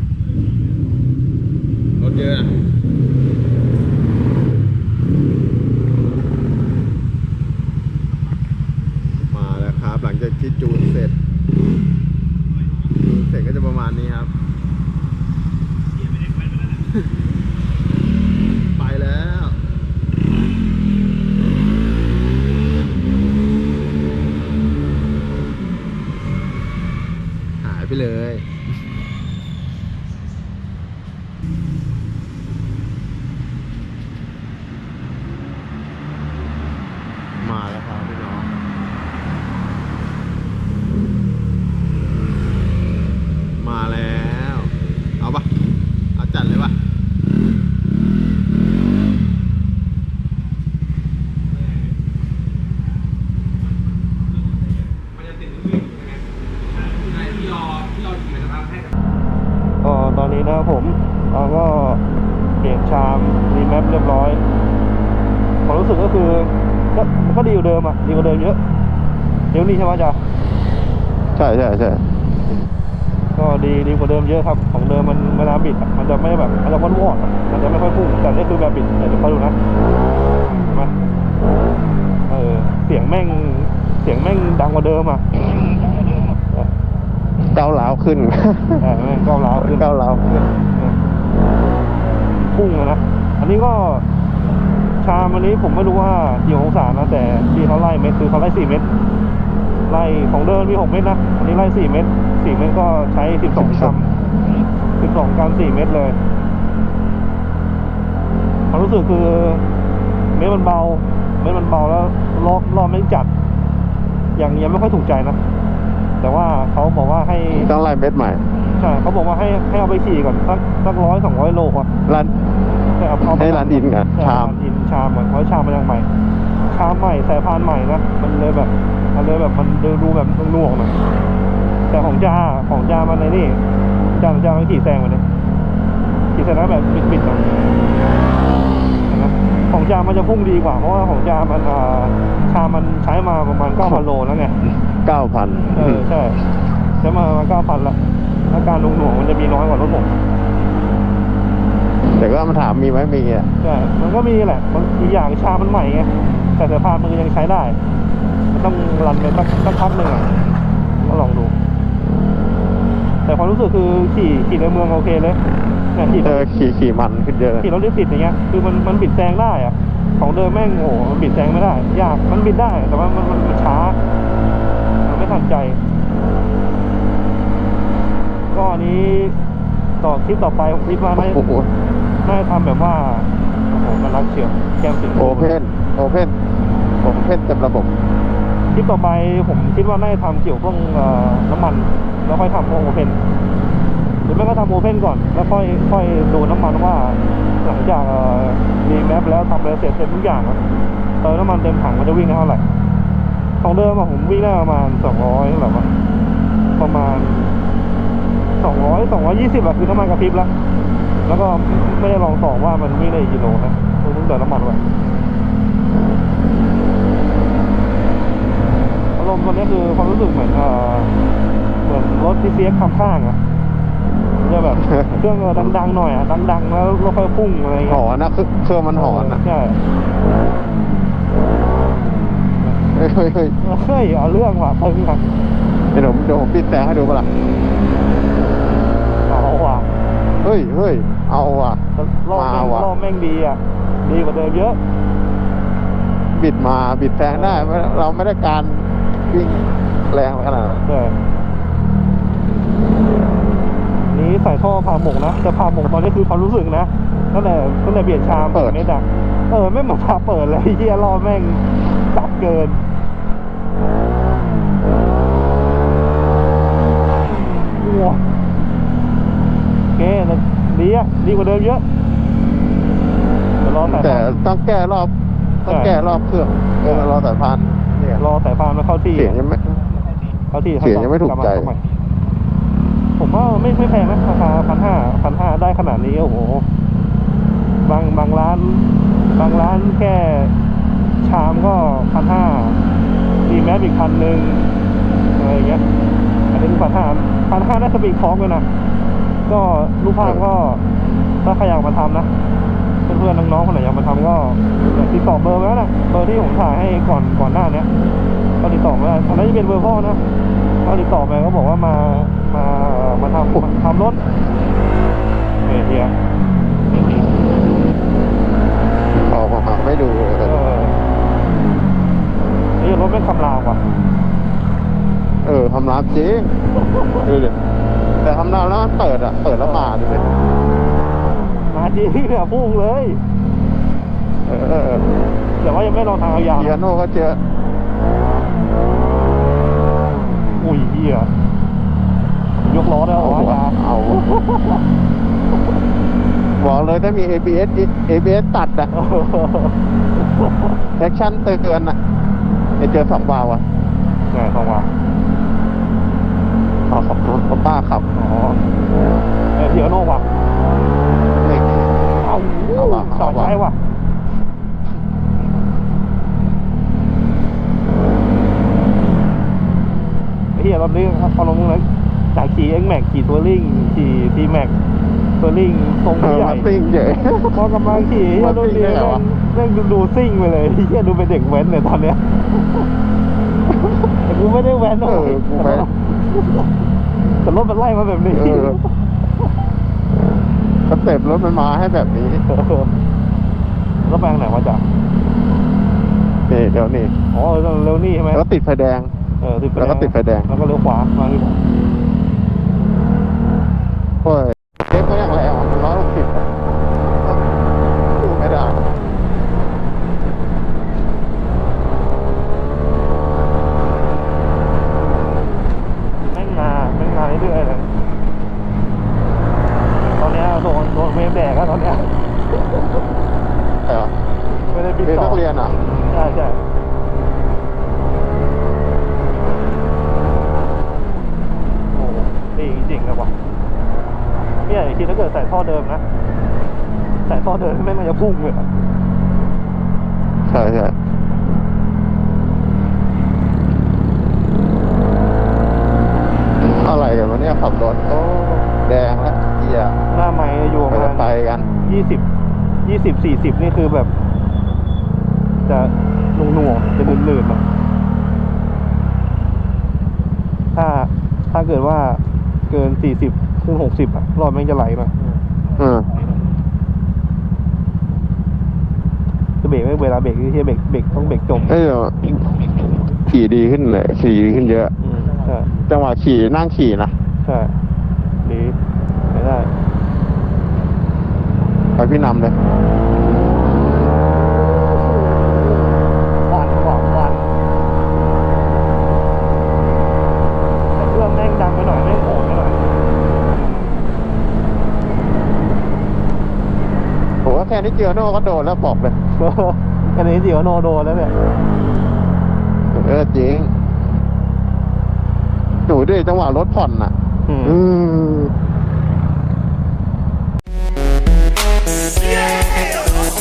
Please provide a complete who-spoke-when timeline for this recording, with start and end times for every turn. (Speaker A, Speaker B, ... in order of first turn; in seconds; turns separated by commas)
Speaker A: 2.0-2.5, Speaker A: 9.3-11.2, Speaker A: 13.0-14.3, Speaker A: 18.8-19.6, Speaker A: 27.6-28.4, Speaker A: 37.4-38.5, Speaker A: 43.6-45.5, Speaker A: 46.1-46.7, Speaker B: 54.5-59.0, Speaker C: 59.8-62.0, Speaker C: 62.6-64.4, Speaker C: 65.7-68.6, Speaker C: 69.5-70.2, Speaker D: 71.3-72.0, Speaker C: 73.3-79.5, Speaker C: 80.5-80.9, Speaker C: 82.3-85.2, Speaker C: 86.3-86.7, Speaker D: 87.4-88.8, Speaker C: 88.8-89.9, Speaker D: 89.5-90.5, Speaker C: 92.5-94.0, Speaker C: 95.0-98.9, Speaker C: 99.9-104.0, Speaker D: 103.5-103.9, Speaker C: 105.0-106.2, Speaker C: 108.7-109.6, Speaker C: 110.3-113.3, Speaker C: 114.3-115.4, Speaker C: 116.2-117.7, Speaker D: 117.5-118.4, Speaker C: 118.8-121.9, Speaker D: 122.1-122.3, Speaker C: 123.0-126.1, Speaker D: 123.3-124.5, Speaker C: 126.7-130.9, Speaker C: 131.9-133.6, Speaker C: 134.1-135.2, Speaker C: 136.3-137.4, Speaker C: 139.1-144.6, Speaker D: 145.0-146.1, Speaker C: 145.7-146.4, Speaker C: 147.0-147.9, Speaker C: 148.5-150.1, Speaker D: 152.2-153.5, Speaker C: 153.6-157.8, Speaker C: 158.5-160.3, Speaker C: 161.0-161.5, Speaker C: 163.2-165.4, Speaker C: 165.9-166.4, Speaker D: 166.2-167.7, Speaker C: 167.6-174.0, Speaker C: 175.0-175.8, Speaker C: 178.5-179.3, Speaker C: 180.0-181.4, Speaker D: 181.1-181.7, Speaker C: 182.2-185.5, Speaker D: 185.2-186.3, Speaker D: 187.0-187.9, Speaker C: 188.7-193.2, Speaker C: 194.2-200.6, Speaker C: 201.2-202.6, Speaker C: 203.6-205.9, Speaker C: 206.8-207.5, Speaker C: 208.6-210.5, Speaker C: 211.2-214.8, Speaker C: 219.2-221.1, Speaker C: 221.8-223.4, Speaker C: 224.4-228.0, Speaker D: 224.7-225.8, Speaker D: 227.9-229.4, Speaker C: 228.9-229.8, Speaker D: 232.9-233.5, Speaker C: 233.6-235.2, Speaker D: 235.9-237.3, Speaker C: 239.3-239.9, Speaker D: 240.4-241.8, Speaker C: 242.0-244.8, Speaker D: 242.3-242.9, Speaker D: 246.3-250.8, Speaker C: 247.3-247.8, Speaker C: 250.8-251.1, Speaker C: 254.1-262.8, Speaker D: 258.4-258.8, Speaker C: 267.7-268.2, Speaker C: 269.9-271.8, Speaker C: 273.6-274.4, Speaker D: 273.8-275.1, Speaker D: 275.6-278.2, Speaker C: 275.7-275.9, Speaker C: 276.8-277.1, Speaker C: 278.2-279.4, Speaker D: 279.1-279.8, Speaker C: 280.5-281.8, Speaker D: 280.8-281.7, Speaker C: 283.2-286.6, Speaker C: 287.8-290.5, Speaker C: 291.2-292.8, Speaker C: 293.4-294.7, Speaker C: 295.4-295.8, Speaker C: 296.5-298.6, Speaker C: 299.5-300.8, Speaker C: 301.4-302.3, Speaker C: 303.1-307.9, Speaker C: 308.6-310.2, Speaker C: 310.8-314.2, Speaker C: 315.6-316.1, Speaker D: 319.2-320.6, Speaker C: 320.4-321.0, Speaker C: 322.8-323.8, Speaker D: 325.4-326.5, Speaker C: 326.9-327.2, Speaker D: 327.2-327.5, Speaker D: 328.2-330.2, Speaker C: 331.7-333.2, Speaker D: 334.5-335.0, Speaker C: 335.6-336.8, Speaker D: 336.5-337.4, Speaker C: 340.6-341.3, Speaker C: 342.6-343.8, Speaker D: 343.1-344.3, Speaker C: 344.5-344.8, Speaker D: 346.6-348.9, Speaker C: 348.9-349.8, Speaker C: 350.4-350.7, Speaker D: 351.0-352.0, Speaker D: 352.8-353.6, Speaker C: 354.3-354.9, Speaker D: 356.9-358.0, Speaker C: 358.1-358.6, Speaker C: 359.5-360.2, Speaker D: 361.2-362.1, Speaker C: 362.2-363.8, Speaker D: 362.7-363.6, Speaker C: 370.5-374.7, Speaker C: 375.4-376.7, Speaker D: 376.2-379.2, Speaker C: 377.5-382.2, Speaker C: 384.2-386.7, Speaker D: 385.0-385.9, Speaker C: 387.4-388.8, Speaker D: 388.3-388.8, Speaker D: 390.9-392.4, Speaker C: 392.5-392.9, Speaker C: 394.0-394.8, Speaker D: 396.5-397.1, Speaker C: 397.3-398.4, Speaker D: 398.3-399.1, Speaker C: 399.4-401.6, Speaker D: 399.8-400.5, Speaker D: 404.2-406.5, Speaker D: 407.2-407.4, Speaker D: 408.1-408.8, Speaker C: 416.3-417.9, Speaker C: 420.1-422.1, Speaker D: 423.9-424.1, Speaker C: 424.7-425.4, Speaker D: 425.0-425.7, Speaker C: 426.1-426.6, Speaker C: 431.9-433.3, Speaker C: 434.6-436.0, Speaker C: 437.2-438.7, Speaker D: 440.5-440.9, Speaker D: 446.6-449.9, Speaker C: 450.1-452.2, Speaker D: 450.9-451.7, Speaker C: 452.8-454.1, Speaker C: 455.6-457.6, Speaker C: 460.7-465.2, Speaker D: 465.8-466.1, Speaker C: 469.6-471.7, Speaker D: 471.6-472.5, Speaker D: 473.2-474.9, Speaker C: 475.0-475.7, Speaker D: 475.9-477.1, Speaker C: 477.4-477.7, Speaker C: 478.4-478.8, Speaker C: 479.3-479.7, Speaker D: 482.0-482.6, Speaker C: 485.0-485.9, Speaker C: 486.5-487.5, Speaker C: 490.9-492.8, Speaker D: 497.4-499.1, Speaker C: 499.3-501.3, Speaker D: 502.9-503.7, Speaker D: 505.9-508.5, Speaker C: 507.5-507.8